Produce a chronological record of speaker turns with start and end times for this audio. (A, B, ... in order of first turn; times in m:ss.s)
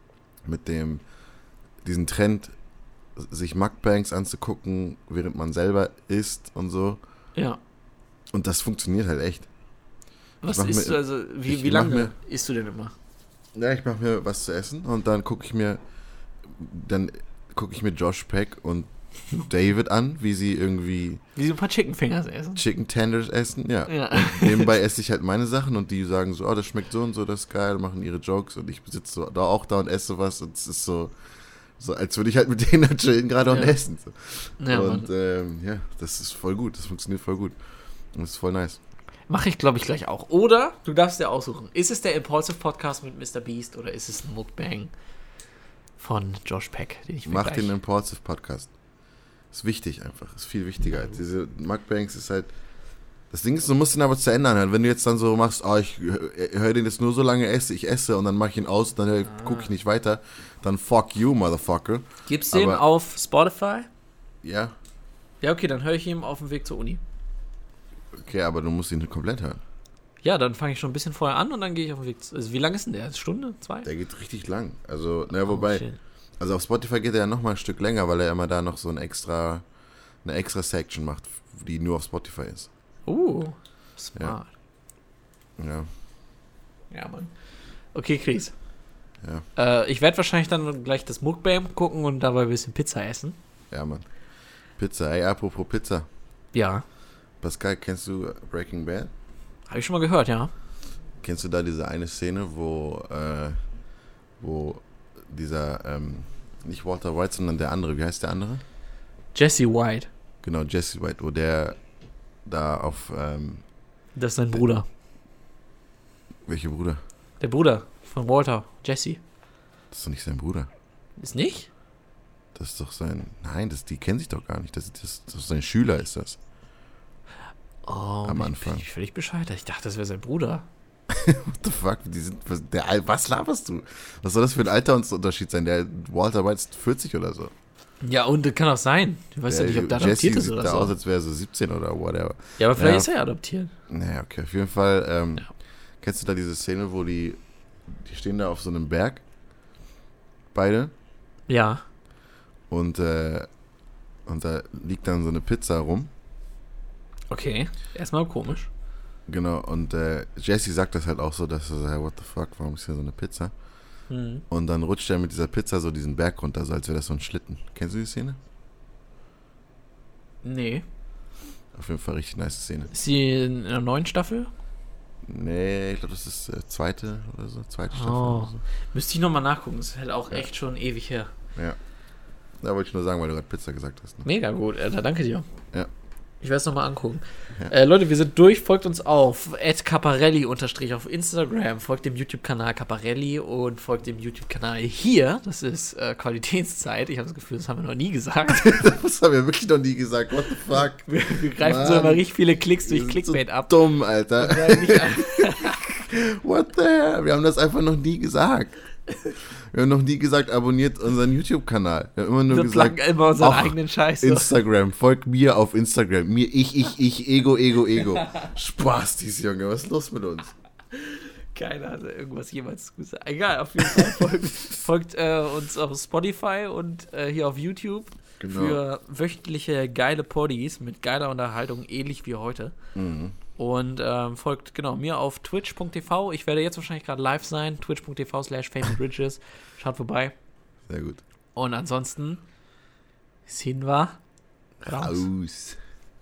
0:00.4-0:01.0 A
0:01.8-0:02.5 A
0:03.2-0:07.0 A
0:07.3-0:07.6 B
0:08.3-0:09.5 A
0:10.4-0:12.9 B
0:10.4-0:12.1 A
0:13.5-0:15.8 A
0:16.4-0:21.2 A
0:21.4-0:22.6 B
0:22.6-0:31.1 A
0:23.9-0:24.8 B
0:31.8-0:37.6 A
0:34.6-0:35.1 B
0:38.1-0:38.8 A
0:39.3-0:44.9 B
0:46.0-0:47.7 B
0:47.2-0:48.7 A
0:49.5-0:52.5 A
0:53.3-1:02.8 A
1:02.3-1:03.9 B
1:04.4-1:04.7 A
1:05.4-1:07.0 B
1:08.1-1:09.6 A
1:10.2-1:13.9 B
1:13.8-1:15.8 A
1:15.4-1:16.0 B
1:16.4-1:19.6 A
1:20.2-1:22.7 A
1:23.0-1:24.5 B
1:25.6-1:25.9 A
1:26.9-1:27.3 B
1:27.9-1:28.5 B
1:29.6-1:33.4 B
1:33.7-1:34.0 A
1:34.8-1:36.1 A
1:36.5-1:36.8 B
1:37.4-1:39.1 A
1:39.7-1:40.5 B
1:41.2-1:43.6 A
1:44.4-1:48.6 A
1:49.3-1:50.1 B
1:50.4-1:51.8 A
1:52.4-1:53.6 A
1:54.1-1:54.9 B
1:56.5-1:57.0 A
1:57.4-1:59.2 B
1:59.9-2:00.7 A
2:01.2-2:01.7 B
2:02.6-2:06.4 A
2:07.8-2:10.7 B
2:08.2-2:08.9 A
2:11.1-2:17.5 A
2:18.0-2:21.0 B
2:19.5-2:23.1 A
2:22.6-2:23.7 B
2:23.9-2:25.5 A
2:26.0-2:27.4 A
2:27.9-2:29.2 A
2:30.5-2:30.9 A
2:31.5-2:31.8 B
2:32.7-2:33.5 A
2:34.3-2:36.1 A
2:37.3-2:38.7 B
2:39.3-2:43.5 A
2:44.1-2:44.4 B
2:44.5-2:48.4 A
2:50.4-2:50.8 B
2:51.7-2:52.9 A
2:52.9-2:54.5 B
2:55.3-2:58.6 A
2:57.9-3:01.3 B
3:02.6-3:04.3 A
3:04.2-3:05.5 B
3:06.4-3:18.9 B
3:18.6-3:22.2 A
3:21.0-3:23.7 B
3:22.8-3:28.7 A
3:24.4-3:25.9 B
3:29.7-3:40.5 A
3:32.5-3:34.5 B
3:37.9-3:38.5 B
3:40.9-3:52.7 B
3:48.4-3:48.8 A
3:53.0-3:53.4 A
3:53.6-4:00.3 B
4:00.9-4:01.2 A
4:01.6-4:02.4 B
4:03.4-4:04.2 B
4:04.8-4:05.8 A
4:04.9-4:05.3 B